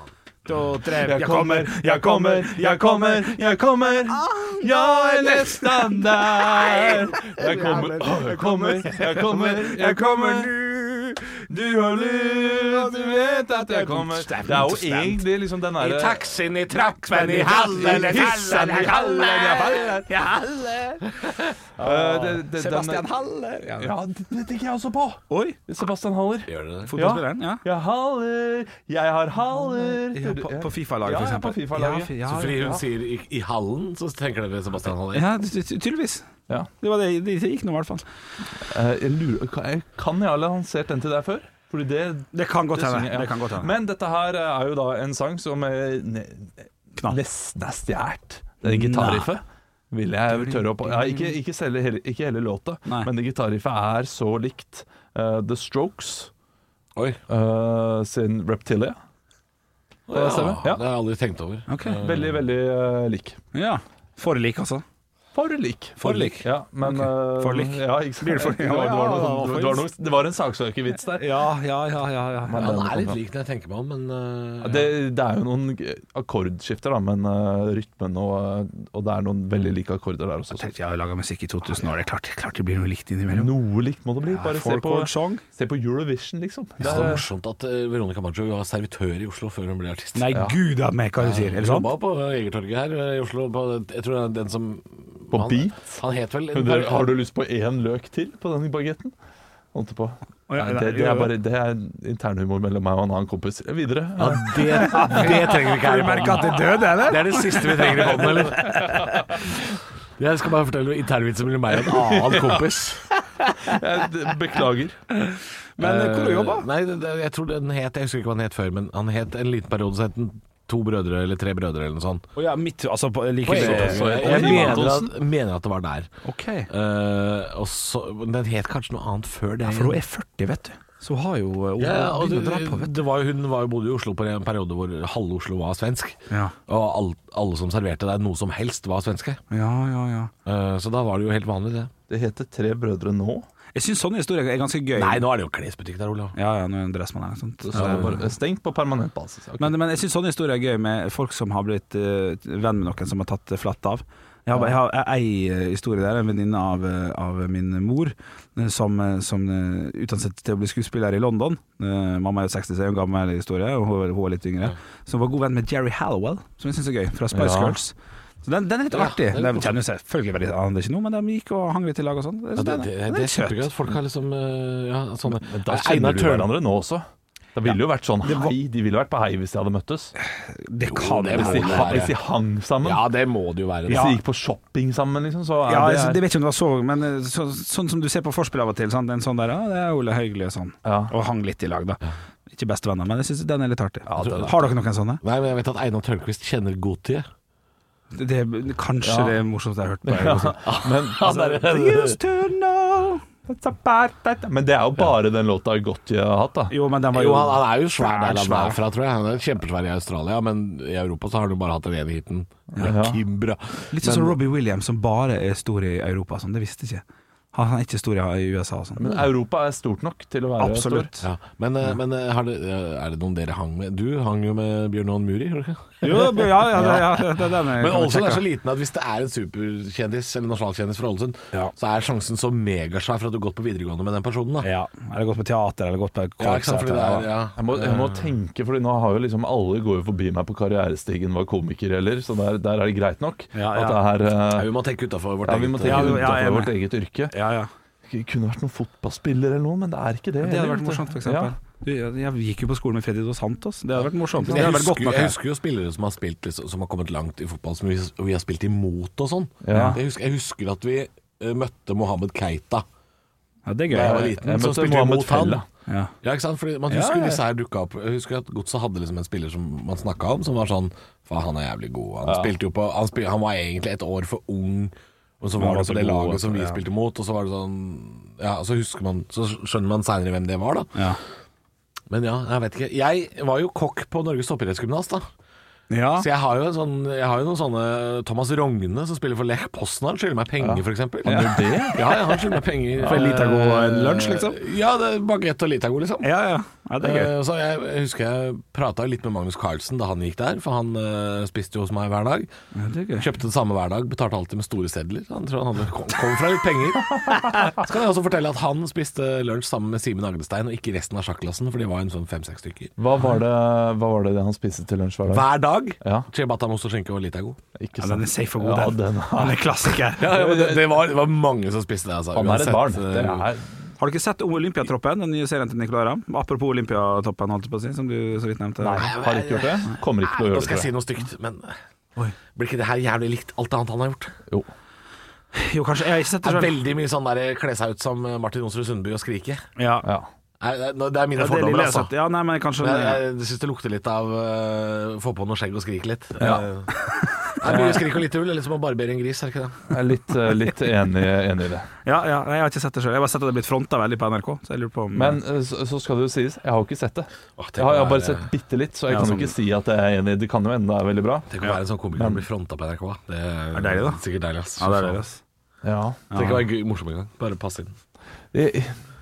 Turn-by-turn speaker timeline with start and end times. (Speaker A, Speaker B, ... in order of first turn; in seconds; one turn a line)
Speaker A: 0.5-3.3
Speaker B: 0.8-10.5
Speaker A: 4.2-4.6
Speaker A: 5.2-5.5
Speaker A: 6.6-11.2
Speaker B: 11.3-16.3
Speaker A: 12.5-15.2
Speaker C: 15.8-19.8
Speaker A: 16.7-23.9
Speaker B: 17.8-20.1
Speaker B: 21.8-23.1
Speaker B: 23.8-32.7
Speaker A: 25.3-25.6
Speaker C: 26.5-27.0
Speaker A: 26.9-27.6
Speaker A: 29.6-32.8
Speaker C: 32.2-35.3
Speaker A: 35.1-36.2
Speaker A: 36.8-38.0
Speaker B: 38.6-56.3
Speaker A: 42.3-43.7
Speaker A: 48.6-49.3
Speaker A: 50.3-51.3
Speaker C: 56.9-57.2
Speaker B: 57.3-59.0
Speaker C: 60.1-62.4
Speaker B: 60.1-60.8
Speaker A: 61.7-62.0
Speaker B: 62.0-63.4
Speaker A: 63.5-64.8
Speaker B: 65.3-71.3
Speaker A: 66.0-69.9
Speaker A: 71.1-72.7
Speaker B: 72.4-73.2
Speaker C: 72.5-74.9
Speaker B: 74.6-80.7
Speaker A: 80.5-83.5
Speaker B: 83.3-87.2
Speaker A: 84.3-85.4
Speaker A: 86.8-87.2
Speaker C: 86.8-90.3
Speaker A: 90.1-91.9
Speaker B: 90.3-90.6
Speaker C: 91.2-97.1
Speaker B: 95.3-96.0
Speaker B: 96.5-99.1
Speaker B: 99.7-105.2
Speaker A: 100.5-101.3
Speaker C: 104.2-108.8
Speaker A: 104.5-109.2
Speaker B: 107.8-109.5
Speaker C: 110.2-113.1
Speaker B: 111.8-112.7
Speaker B: 113.6-115.0
Speaker A: 115.8-116.7
Speaker C: 115.8-122.2
Speaker A: 122.3-125.0
Speaker C: 123.4-126.1
Speaker B: 123.5-125.1
Speaker A: 126.2-126.7
Speaker C: 126.7-130.0
Speaker A: 129.6-132.9
Speaker C: 131.8-139.4
Speaker A: 139.5-140.3
Speaker C: 140.4-141.9
Speaker B: 142.1-143.4
Speaker A: 143.7-145.2
Speaker C: 144.9-146.3
Speaker A: 146.3-148.2
Speaker B: 147.6-149.7
Speaker C: 147.7-148.2
Speaker A: 149.6-173.7
Speaker B: 167.3-167.8
Speaker C: 168.9-169.8
Speaker C: 172.5-176.5
Speaker B: 175.3-180.1
Speaker A: 178.2-178.5
Speaker A: 180.2-182.1
Speaker C: 180.8-182.1
Speaker B: 181.3-183.0
Speaker C: 182.8-184.1
Speaker A: 183.9-184.2
Speaker B: 183.9-186.2
Speaker A: 185.7-195.2
Speaker B: 190.8-191.1
Speaker B: 194.1-194.6
Speaker C: 195.2-197.2
Speaker A: 198.1-200.6
Speaker B: 199.0-199.4
Speaker B: 200.0-201.4
Speaker C: 200.6-202.2
Speaker A: 201.2-203.2
Speaker B: 203.5-206.7
Speaker A: 206.7-208.8
Speaker C: 207.1-214.4
Speaker B: 212.8-213.2
Speaker A: 213.9-217.0
Speaker A: 217.5-219.2
Speaker B: 219.0-221.1
Speaker A: 220.6-221.3
Speaker C: 221.2-234.7
Speaker A: 226.0-228.4
Speaker A: 234.6-237.3
Speaker C: 236.4-238.3
Speaker B: 237.6-244.7
Speaker A: 243.5-244.0
Speaker C: 244.4-246.3
Speaker B: 245.4-247.3
Speaker A: 245.8-246.7
Speaker A: 247.3-247.7
Speaker B: 248.1-251.5
Speaker A: 250.4-255.3
Speaker C: 254.4-262.8
Speaker B: 259.6-260.0
Speaker A: 259.7-260.0
Speaker A: 263.6-264.3
Speaker C: 263.9-265.6
Speaker B: 263.9-265.6
Speaker A: 265.9-266.1
Speaker C: 266.2-281.0
Speaker A: 266.9-267.4
Speaker B: 272.2-272.5
Speaker A: 275.6-276.8
Speaker C: 282.1-285.2
Speaker A: 285.9-286.3
Speaker C: 286.2-296.3
Speaker B: 290.6-292.0
Speaker A: 293.0-294.6
Speaker A: 296.2-297.3
Speaker C: 297.0-302.5
Speaker A: 302.7-303.3
Speaker C: 303.2-312.9
Speaker B: 313.0-315.5
Speaker C: 315.3-317.6
Speaker B: 316.0-316.3
Speaker B: 317.7-319.7
Speaker A: 318.0-320.5
Speaker C: 320.2-323.5
Speaker B: 320.2-320.8
Speaker B: 322.3-323.7
Speaker A: 324.0-329.1
Speaker B: 328.8-330.9
Speaker C: 329.0-331.8
Speaker C: 332.5-334.3
Speaker A: 335.5-336.8
Speaker C: 336.4-339.6
Speaker A: 339.8-340.1
Speaker B: 340.0-340.3
Speaker C: 340.6-342.1
Speaker A: 341.4-343.2
Speaker C: 342.8-346.9
Speaker B: 346.4-346.6
Speaker A: 346.9-347.6
Speaker C: 347.6-349.8
Speaker B: 347.6-348.0
Speaker B: 349.9-351.9
Speaker A: 352.0-355.4
Speaker B: 355.1-361.5
Speaker C: 357.6-358.5
Speaker A: 359.1-359.5
Speaker C: 361.5-365.2
Speaker B: 362.1-362.4
Speaker A: 363.7-364.2
Speaker A: 364.8-365.4
Speaker B: 365.8-366.2
Speaker A: 366.3-366.6
Speaker C: 366.3-367.9
Speaker B: 368.5-369.0